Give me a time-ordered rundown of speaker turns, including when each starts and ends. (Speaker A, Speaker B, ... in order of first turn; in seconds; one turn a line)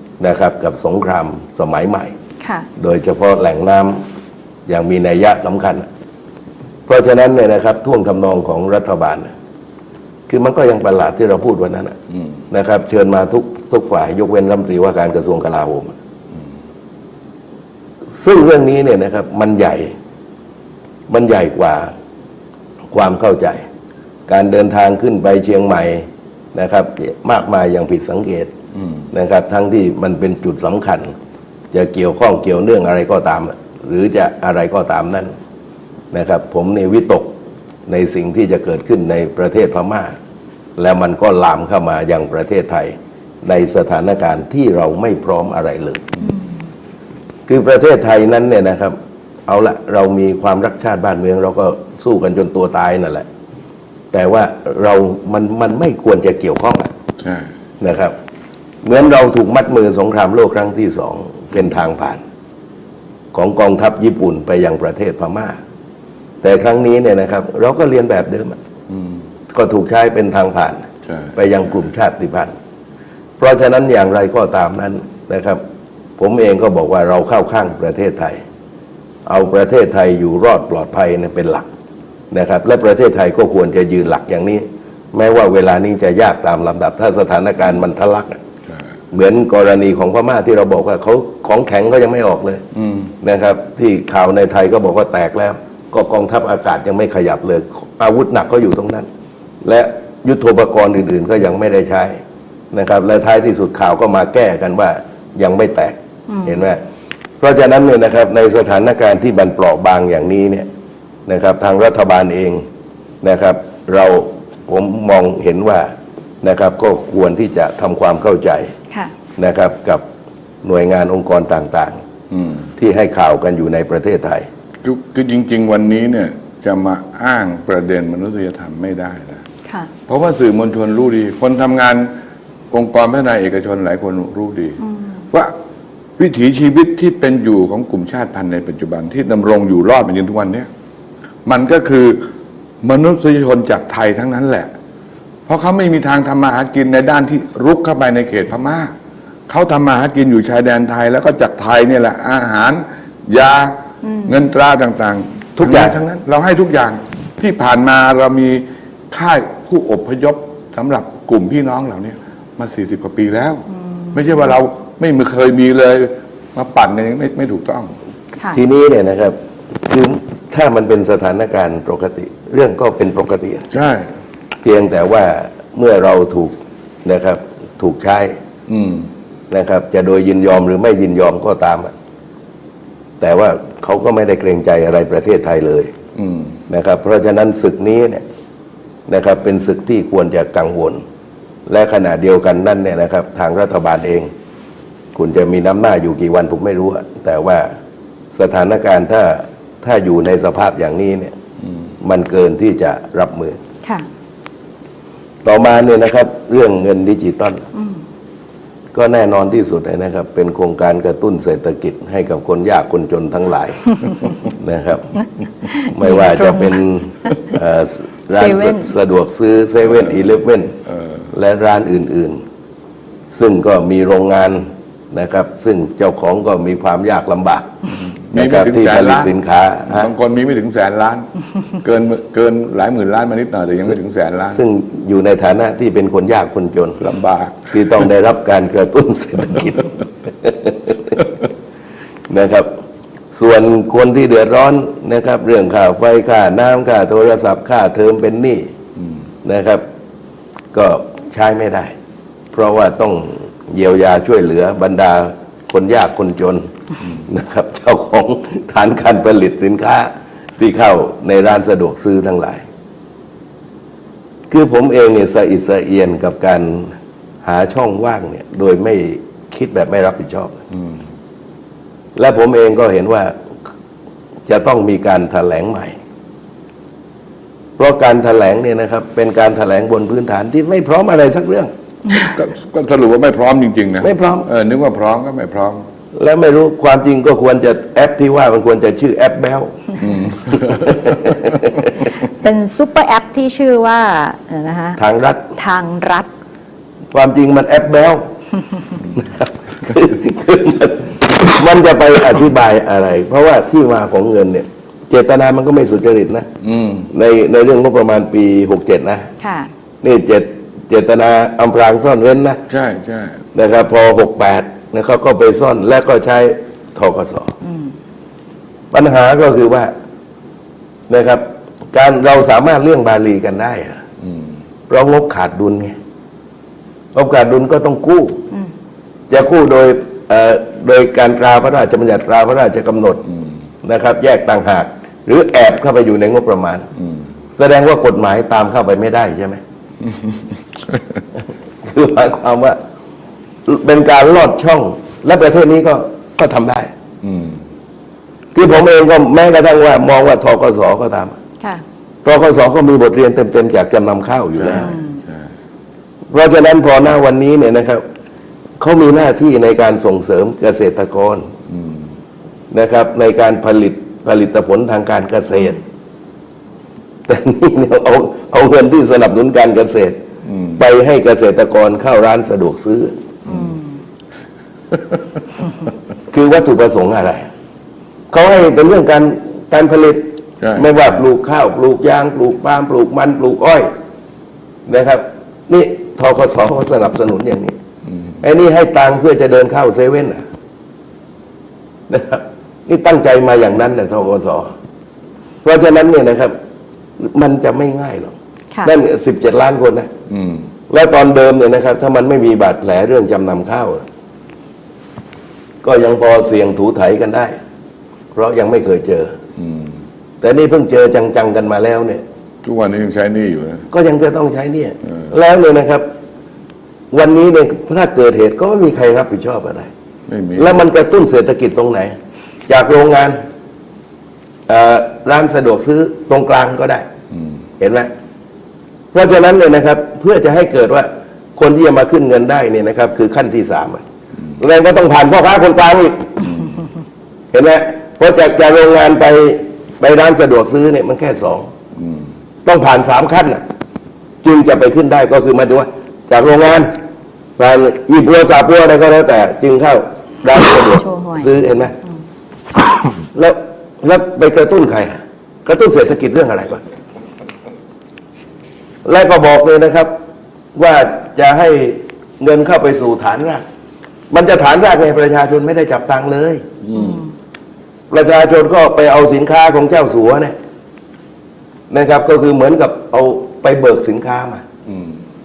Speaker A: 0.2-2.1
Speaker B: 2.4-2.7
Speaker A: 2.8-4.0
Speaker A: 4.7-5.9
Speaker A: 6.9-9.3
Speaker A: 10.3-12.0
Speaker A: 12.5-16.0
Speaker A: 18.2-19.9
Speaker A: 21.1-21.9
Speaker A: 22.9-23.6
Speaker A: 24.3-28.5
Speaker A: 29.1-31.1
Speaker A: 31.7-35.3
Speaker A: 36.1-37.4
Speaker A: 37.9-40.2
Speaker A: 40.8-46.0
Speaker B: 46.2-46.5
Speaker A: 47.5-53.3
Speaker A: 54.1-56.9
Speaker C: 57.2-57.5
Speaker A: 57.8-58.1
Speaker A: 58.8-62.2
Speaker A: 63.3-65.6
Speaker A: 66.4-68.6
Speaker C: 68.9-69.2
Speaker A: 69.5-72.5
Speaker C: 71.1-71.3
Speaker A: 73.4-75.6
Speaker A: 76.2-78.4
Speaker A: 79.3-81.7
Speaker A: 82.3-88.4
Speaker A: 89.1-92.6
Speaker C: 92.7-93.1
Speaker A: 93.2-99.1
Speaker A: 99.6-102.2
Speaker A: 102.7-106.8
Speaker B: 106.3-106.6
Speaker A: 107.4-110.7
Speaker A: 111.3-112.7
Speaker A: 113.2-118.8
Speaker A: 119.4-120.0
Speaker A: 120.6-122.0
Speaker C: 122.3-122.7
Speaker A: 122.8-124.5
Speaker C: 124.8-129.4
Speaker C: 130.1-132.1
Speaker C: 132.7-134.8
Speaker C: 136.2-140.7
Speaker C: 141.4-142.3
Speaker C: 142.8-144.7
Speaker C: 145.5-148.9
Speaker C: 149.5-167.9
Speaker B: 154.0-154.3
Speaker A: 155.6-156.0
Speaker B: 163.9-164.2
Speaker A: 168.5-173.7
Speaker C: 173.7-174.1
Speaker A: 174.6-178.4
Speaker C: 178.7-179.1
Speaker A: 179.5-181.9
Speaker A: 183.2-185.9
Speaker C: 186.2-186.6
Speaker A: 186.7-188.2
Speaker A: 189.1-191.0
Speaker A: 191.7-194.3
Speaker A: 195.2-197.7
Speaker A: 198.3-201.4
Speaker A: 202.0-203.6
Speaker A: 205.4-207.6
Speaker B: 207.8-208.0
Speaker A: 208.9-215.2
Speaker B: 215.7-216.8
Speaker A: 215.8-220.8
Speaker B: 218.4-218.9
Speaker C: 220.9-221.3
Speaker A: 221.3-222.4
Speaker A: 223.3-227.7
Speaker C: 228.2-229.3
Speaker A: 228.3-230.1
Speaker C: 229.9-231.3
Speaker C: 231.8-234.6
Speaker A: 234.5-237.0
Speaker C: 237.0-238.1
Speaker A: 237.7-241.2
Speaker A: 242.3-242.7
Speaker A: 243.3-248.7
Speaker A: 249.4-249.8
Speaker A: 250.7-251.9
Speaker A: 252.5-262.6
Speaker A: 264.5-270.6
Speaker A: 272.2-273.4
Speaker A: 274.5-276.0
Speaker A: 277.8-281.7
Speaker C: 282.1-285.9
Speaker A: 284.0-284.5
Speaker A: 286.1-291.9
Speaker C: 290.0-291.1
Speaker B: 292.2-295.0
Speaker A: 295.0-295.5
Speaker B: 295.6-296.3
Speaker A: 297.1-298.3
Speaker A: 299.1-306.5
Speaker C: 306.6-307.1
Speaker A: 307.1-309.3
Speaker B: 309.4-309.7
Speaker A: 310.0-312.6
Speaker C: 312.7-313.4
Speaker A: 313.5-317.6
Speaker B: 317.6-317.9
Speaker A: 318.9-319.9
Speaker A: 321.1-324.0
Speaker C: 324.2-324.5
Speaker A: 324.9-325.9
Speaker A: 327.1-328.4
Speaker A: 329.3-333.2
Speaker A: 333.8-336.9
Speaker C: 337.0-337.2
Speaker A: 337.6-339.6
Speaker C: 340.0-341.0
Speaker A: 341.8-342.8
Speaker A: 343.7-346.9
Speaker C: 347.2-347.6
Speaker A: 348.6-351.4
Speaker A: 352.2-354.9
Speaker C: 354.6-355.5
Speaker B: 354.7-355.2
Speaker A: 356.3-358.0
Speaker A: 358.8-361.5
Speaker C: 361.7-362.1
Speaker A: 362.7-365.8
Speaker A: 367.3-370.2
Speaker C: 370.4-370.8
Speaker A: 370.8-373.2
Speaker C: 373.5-373.7
Speaker B: 373.5-373.8
Speaker A: 376.3-377.5
Speaker A: 378.3-383.9
Speaker C: 380.6-381.2
Speaker A: 384.9-387.8
Speaker A: 388.4-390.4
Speaker A: 392.1-394.8
Speaker A: 395.6-396.6
Speaker A: 397.2-400.1
Speaker C: 400.3-400.7
Speaker A: 400.9-404.0
Speaker A: 405.8-407.6
Speaker A: 408.4-409.4
Speaker C: 409.6-410.0
Speaker A: 410.4-412.2
Speaker C: 412.6-413.9
Speaker A: 413.9-416.1
Speaker A: 417.1-419.9
Speaker C: 420.3-420.8
Speaker A: 420.6-422.2
Speaker A: 422.7-423.4
Speaker A: 424.7-427.1
Speaker C: 427.3-427.6
Speaker A: 427.8-428.1
Speaker A: 429.1-434.0
Speaker A: 434.6-436.4
Speaker C: 436.4-436.8
Speaker A: 437.5-441.7
Speaker C: 442.0-442.3
Speaker A: 442.6-443.6
Speaker A: 444.4-446.9
Speaker A: 447.6-451.9
Speaker B: 450.9-451.5
Speaker A: 453.3-456.8
Speaker A: 459.1-460.1
Speaker A: 460.8-463.6
Speaker A: 464.3-466.7
Speaker C: 466.8-467.2
Speaker B: 466.9-467.3
Speaker A: 468.1-470.6
Speaker A: 471.9-474.6
Speaker C: 474.9-475.2